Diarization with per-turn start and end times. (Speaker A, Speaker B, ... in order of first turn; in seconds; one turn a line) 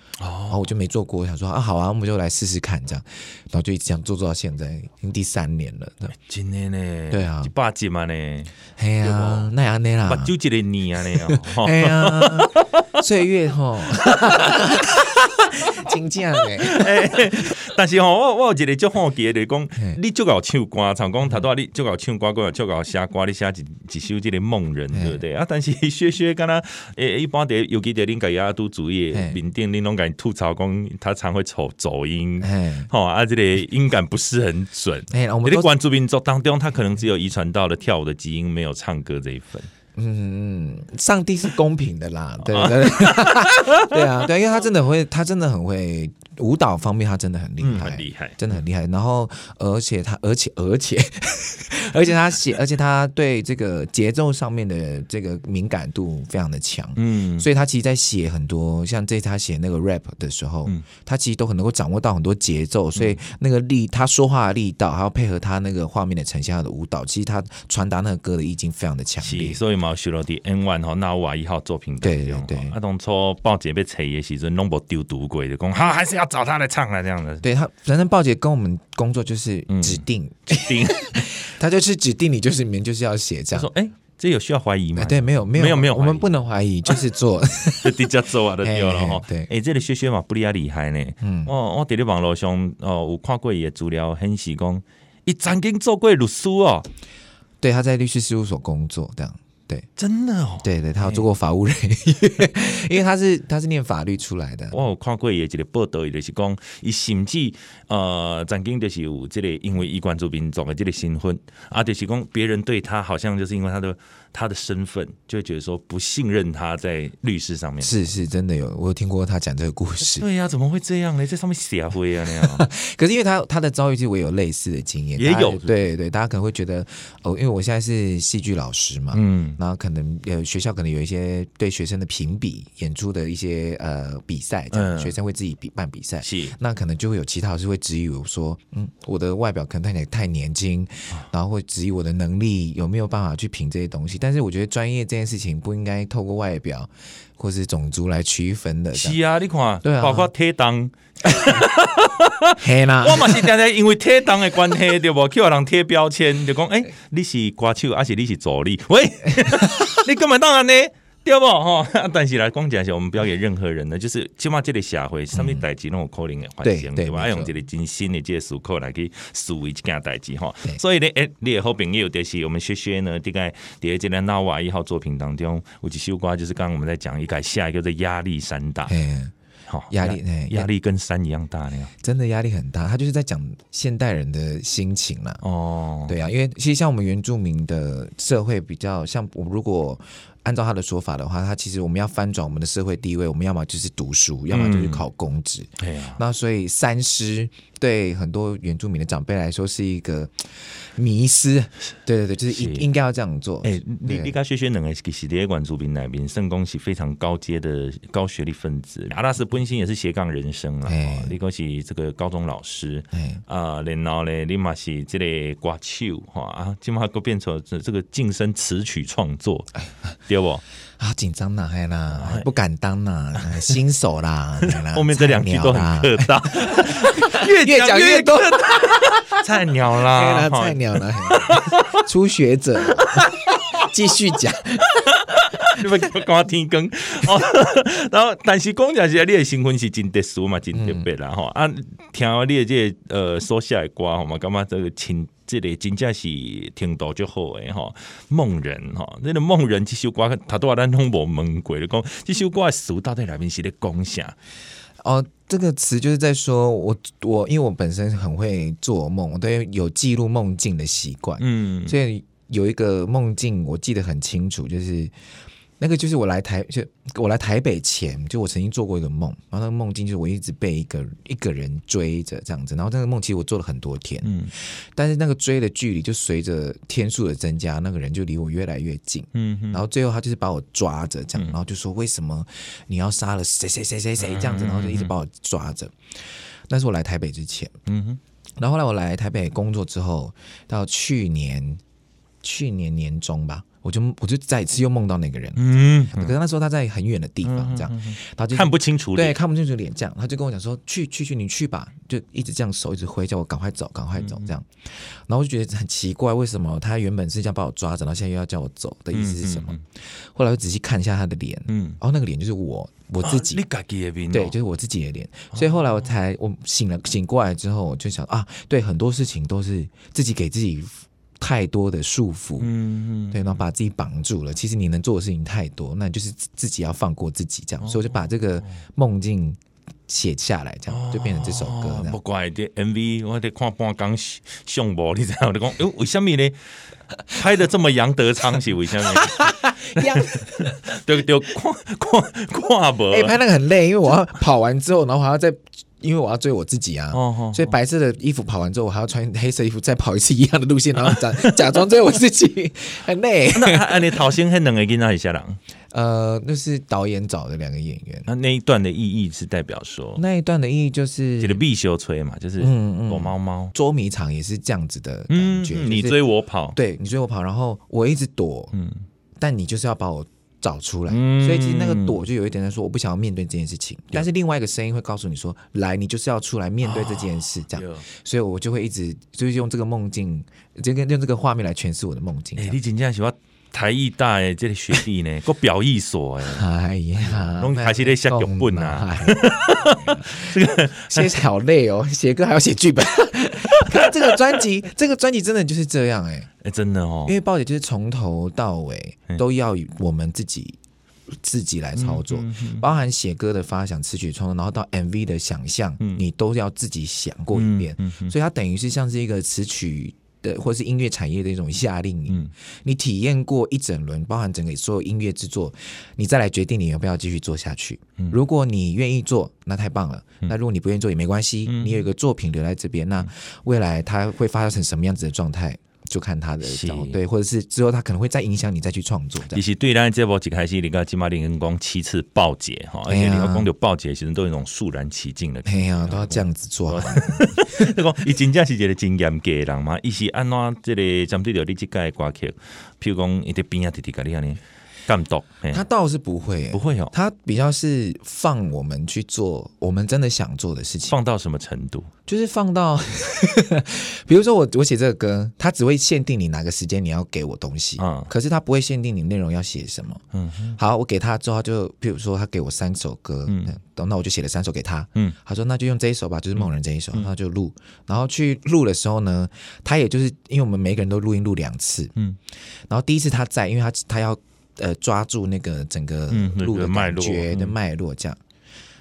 Speaker A: 0.2-0.7
Speaker B: 0.5-6.1
Speaker A: 6.1-9.5
Speaker B: 7.1-7.5
Speaker B: 8.8-10.3
Speaker A: 10.1-13.0
Speaker B: 11.1-17.5
Speaker A: 14.0-14.4
Speaker A: 16.4-39.7
Speaker B: 24.9-25.2
Speaker B: 29.1-29.4
Speaker B: 32.4-32.9
Speaker B: 35.1-35.7
Speaker B: 39.9-69.6
Speaker A: 42.4-44.2
Speaker A: 47.6-48.4
Speaker A: 57.0-57.5
Speaker A: 69.2-77.4
Speaker B: 72.0-72.7
Speaker B: 77.4-83.7
Speaker A: 79.7-81.2
Speaker A: 83.5-86.3
Speaker B: 85.0-88.1
Speaker A: 87.8-96.9
Speaker B: 88.6-89.5
Speaker B: 91.2-91.5
Speaker B: 97.6-99.9
Speaker A: 100.0-101.2
Speaker B: 100.6-104.7
Speaker A: 104.7-118.1
Speaker B: 117.8-120.2
Speaker A: 120.1-122.7
Speaker B: 122.4-149.2
Speaker A: 125.2-125.7
Speaker A: 129.1-129.6
Speaker A: 134.7-135.1
Speaker A: 136.2-136.5
Speaker A: 148.9-178.9
Speaker B: 149.8-150.3
Speaker B: 151.3-151.6
Speaker B: 152.6-153.5
Speaker B: 159.4-159.8
Speaker B: 165.3-165.6
Speaker B: 166.6-167.5
Speaker B: 178.9-179.3
Speaker A: 179.7-181.9
Speaker B: 179.9-180.7
Speaker B: 182.0-185.4
Speaker A: 185.4-186.2
Speaker B: 186.1-204.3
Speaker A: 194.5-195.0
Speaker A: 195.8-196.2
Speaker A: 202.5-202.8
Speaker A: 203.6-219.7
Speaker B: 210.8-211.3
Speaker B: 213.1-213.4
Speaker A: 220.2-220.6
Speaker B: 221.0-229.4
Speaker A: 222.1-222.5
Speaker A: 224.6-232.0
Speaker B: 230.0-235.9
Speaker A: 232.9-233.9
Speaker A: 235.1-254.3
Speaker B: 240.7-241.1
Speaker B: 255.0-265.1
Speaker A: 261.4-261.9
Speaker B: 265.8-287.7
Speaker A: 274.2-274.5
Speaker A: 279.3-279.8
Speaker A: 284.2-285.1
Speaker A: 287.9-288.2
Speaker B: 288.6-291.8
Speaker B: 292.4-309.8
Speaker A: 295.6-296.3
Speaker A: 297.4-299.4
Speaker A: 304.2-304.5
Speaker A: 309.1-309.8
Speaker B: 310.3-313.6
Speaker A: 311.7-312.0
Speaker A: 313.2-314.5
Speaker B: 314.3-322.7
Speaker A: 315.5-316.1
Speaker A: 322.6-323.6
Speaker B: 323.3-332.2
Speaker A: 327.8-328.8
Speaker A: 330.9-336.6
Speaker A: 337.3-343.4
Speaker B: 339.0-340.8
Speaker B: 343.1-354.2
Speaker A: 347.1-347.7
Speaker A: 351.0-351.6
Speaker A: 353.5-355.6
Speaker B: 355.9-358.3
Speaker A: 358.3-360.2
Speaker B: 360.2-361.6
Speaker A: 361.4-363.7
Speaker B: 362.6-366.2
Speaker A: 365.3-366.8
Speaker B: 366.7-368.7
Speaker A: 368.7-369.0
Speaker B: 369.4-382.8
Speaker A: 371.1-372.2
Speaker A: 376.8-378.0
Speaker A: 382.6-386.6
Speaker B: 386.5-396.5
Speaker A: 387.2-391.3
Speaker A: 393.7-394.4
Speaker A: 396.6-397.4
Speaker B: 397.3-400.8
Speaker B: 401.3-429.6
Speaker A: 401.9-402.9
Speaker A: 407.5-408.3
Speaker A: 421.7-422.0
Speaker A: 426.6-427.2
Speaker A: 429.5-445.8
Speaker B: 433.1-433.7
Speaker B: 435.6-437.9
Speaker B: 445.7-451.2
Speaker A: 446.7-447.1
Speaker A: 451.1-452.1
Speaker B: 452.3-460.2
Speaker A: 458.0-458.3
Speaker A: 460.3-460.8
Speaker B: 460.8-472.1
Speaker A: 463.5-463.8
Speaker A: 466.6-467.3
Speaker B: 472.9-478.4
Speaker A: 476.3-477.8